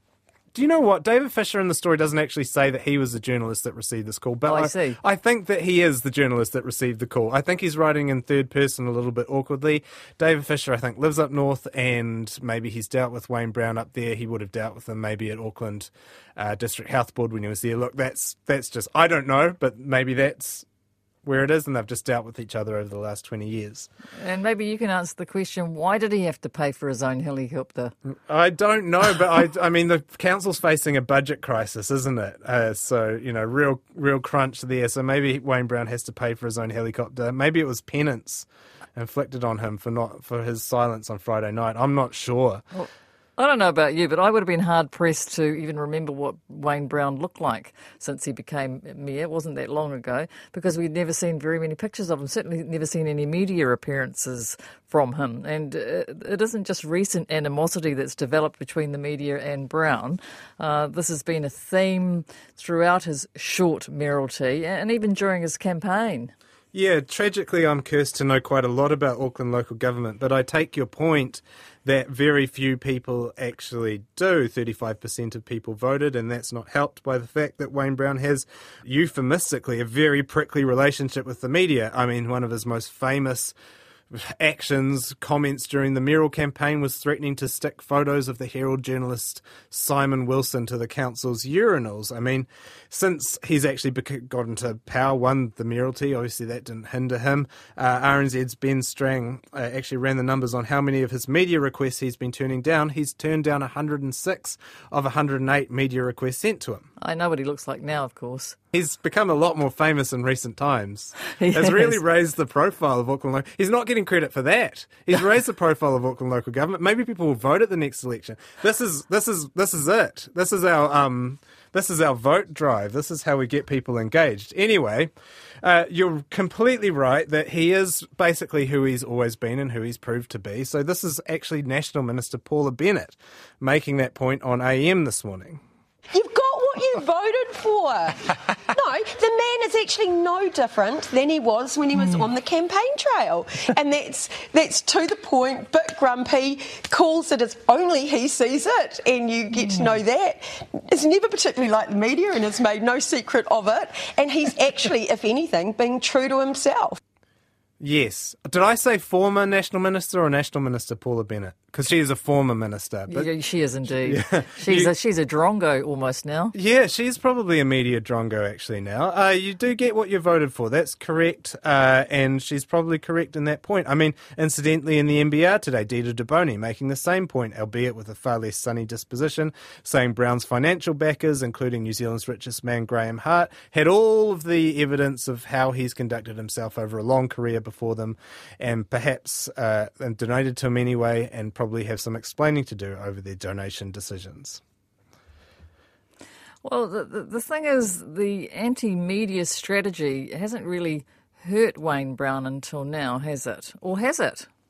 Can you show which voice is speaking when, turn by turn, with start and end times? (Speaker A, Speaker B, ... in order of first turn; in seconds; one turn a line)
Speaker A: 0.5-20.6
Speaker B: 4.5-5.0
Speaker A: 21.2-23.9
Speaker B: 24.2-27.9
Speaker A: 28.3-42.6
Speaker B: 42.7-66.3
Speaker A: 66.7-83.5
Speaker A: 84.1-106.9
Speaker B: 107.0-108.6
Speaker A: 108.7-125.1
Speaker B: 111.3-112.0
Speaker A: 125.6-135.6
Speaker C: 136.1-157.0
Speaker A: 157.8-163.3
Speaker B: 163.1-166.5
Speaker A: 163.9-164.9
Speaker A: 166.5-194.6
Speaker B: 196.6-204.5